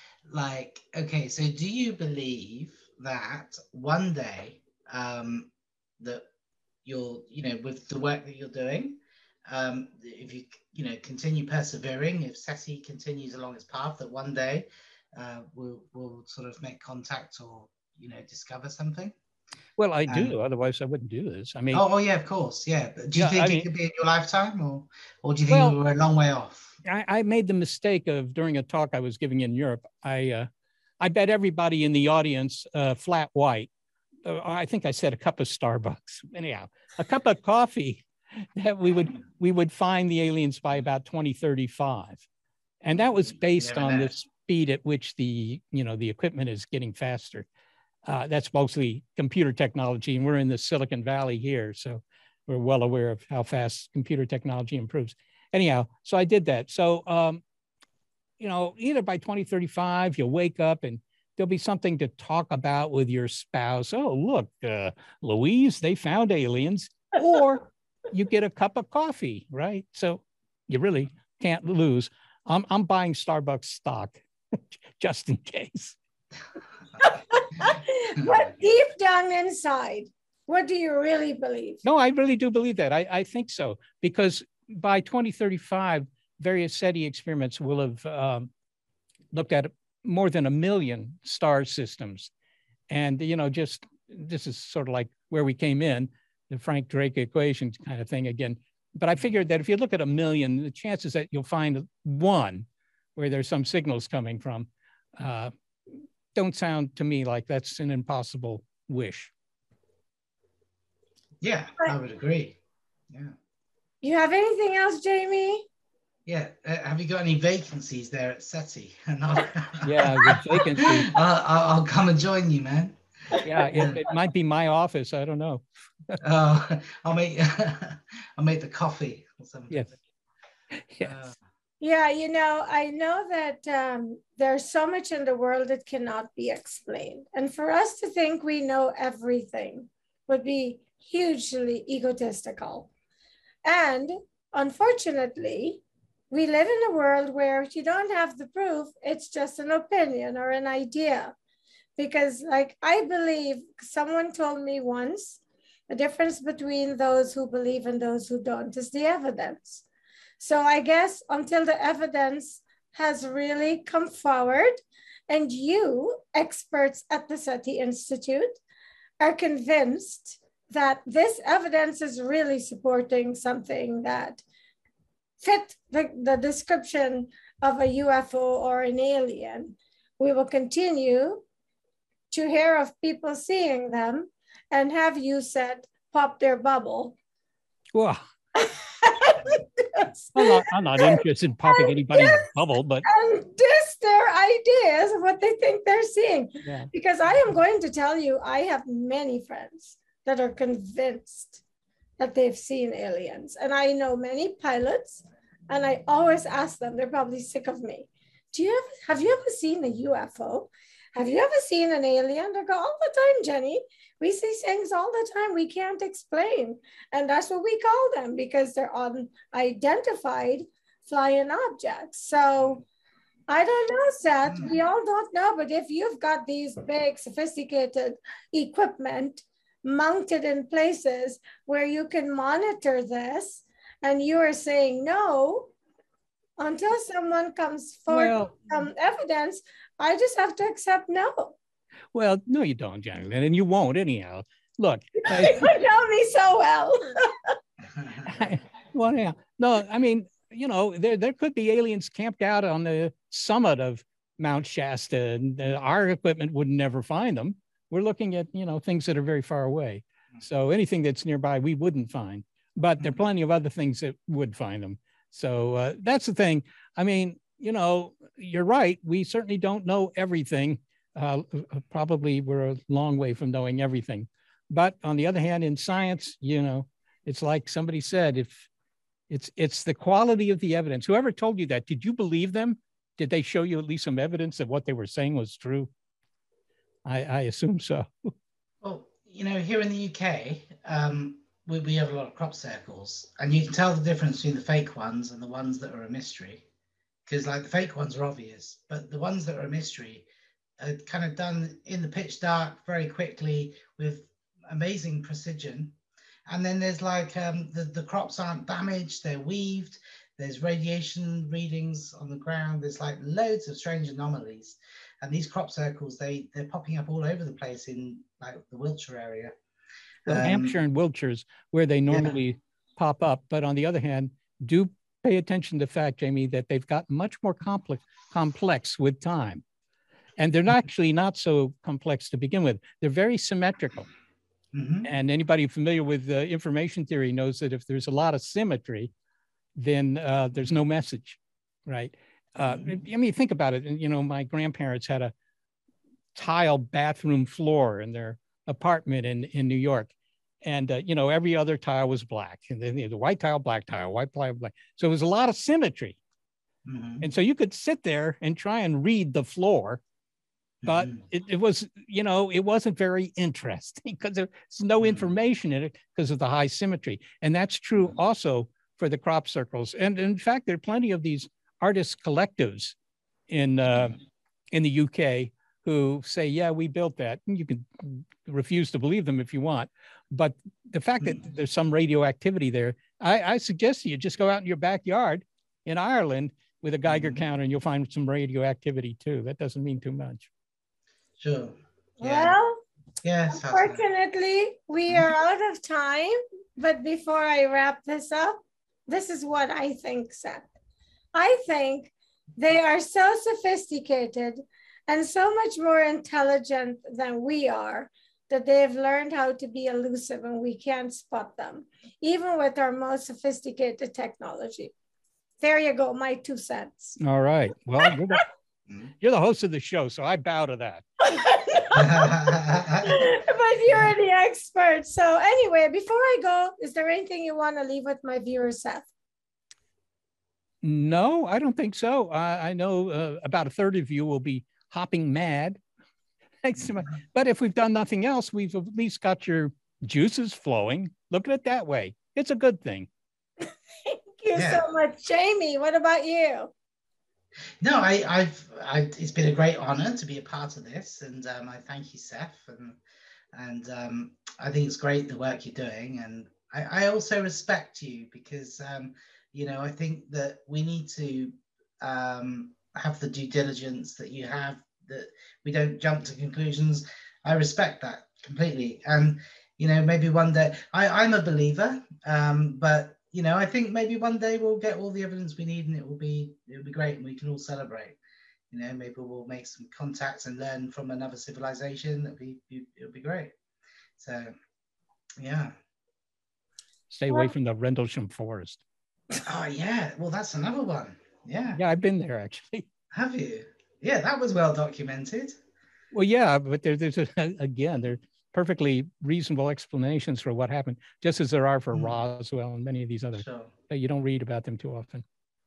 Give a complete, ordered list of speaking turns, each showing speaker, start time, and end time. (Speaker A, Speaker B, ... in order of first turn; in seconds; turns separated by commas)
Speaker A: 0.3-6.2, Speaker A: 6.8-19.1, Speaker B: 19.8-21.8, Speaker A: 20.1-20.4, Speaker A: 21.7-26.8, Speaker B: 23.2-23.7, Speaker B: 25.5-25.8, Speaker B: 26.9-30.5, Speaker B: 31.0-33.7, Speaker B: 34.2-38.0, Speaker B: 38.6-42.2, Speaker B: 42.8-47.5, Speaker A: 43.3-44.2, Speaker B: 48.1-57.4, Speaker B: 58.4-74.2, Speaker B: 75.0-76.0, Speaker C: 77.0-81.8, Speaker B: 81.8-88.5, Speaker B: 89.3-92.3, Speaker B: 92.9-105.5, Speaker B: 106.3-109.3, Speaker A: 111.4-112.6, Speaker A: 113.1-113.3, Speaker C: 114.0-115.7, Speaker A: 116.3-123.0, Speaker B: 119.8-121.1, Speaker C: 123.3-123.7, Speaker B: 123.4-126.2, Speaker A: 123.7-124.0, Speaker A: 126.2-130.0, Speaker A: 131.0-131.4, Speaker C: 131.8-142.9, Speaker C: 143.6-151.3, Speaker C: 152.0-159.8, Speaker C: 160.4-168.6, Speaker C: 169.2-174.4, Speaker C: 175.4-181.4, Speaker C: 182.3-187.1, Speaker B: 187.9-188.2, Speaker C: 188.6-192.5, Speaker B: 190.3-193.1, Speaker C: 193.1-201.6, Speaker B: 196.6-196.9, Speaker C: 202.2-222.8, Speaker C: 223.5-235.7, Speaker A: 224.5-224.8, Speaker C: 236.6-241.6, Speaker B: 238.1-238.5, Speaker B: 242.1-245.7, Speaker C: 245.2-247.5, Speaker A: 247.9-248.5, Speaker B: 248.3-278.7, Speaker B: 279.3-285.9, Speaker B: 287.1-288.3, Speaker A: 288.8-296.6, Speaker A: 297.3-300.3, Speaker A: 300.8-305.9, Speaker A: 306.5-319.5, Speaker A: 320.2-320.8, Speaker B: 320.3-329.6, Speaker A: 322.1-322.4, Speaker B: 330.4-334.1, Speaker A: 334.7-335.1, Speaker B: 335.0-339.1, Speaker B: 339.8-345.3, Speaker A: 342.7-342.9, Speaker B: 346.4-350.1, Speaker B: 350.6-356.2, Speaker A: 356.9-357.3, Speaker B: 357.2-360.0, Speaker A: 360.8-361.2, Speaker B: 360.9-372.9, Speaker A: 365.0-365.3, Speaker B: 373.5-374.2, Speaker B: 374.7-390.5, Speaker A: 387.1-387.4, Speaker A: 391.4-392.6, Speaker C: 392.2-392.8, Speaker A: 393.2-394.1, Speaker C: 393.5-400.7, Speaker C: 401.3-414.9, Speaker C: 415.6-417.2, Speaker B: 417.2-418.4, Speaker C: 418.0-418.4, Speaker B: 419.2-421.0, Speaker C: 421.2-429.1, Speaker A: 421.9-423.1, Speaker B: 430.8-435.8, Speaker B: 436.6-443.1, Speaker C: 444.1-446.7, Speaker A: 444.5-444.8, Speaker A: 447.8-453.0, Speaker A: 453.5-478.2, Speaker A: 478.7-483.5, Speaker A: 484.2-484.5, Speaker A: 485.4-485.8, Speaker B: 487.1-488.8, Speaker A: 489.4-491.8, Speaker B: 491.8-492.9, Speaker A: 493.1-495.6, Speaker B: 496.1-505.2, Speaker A: 503.4-503.7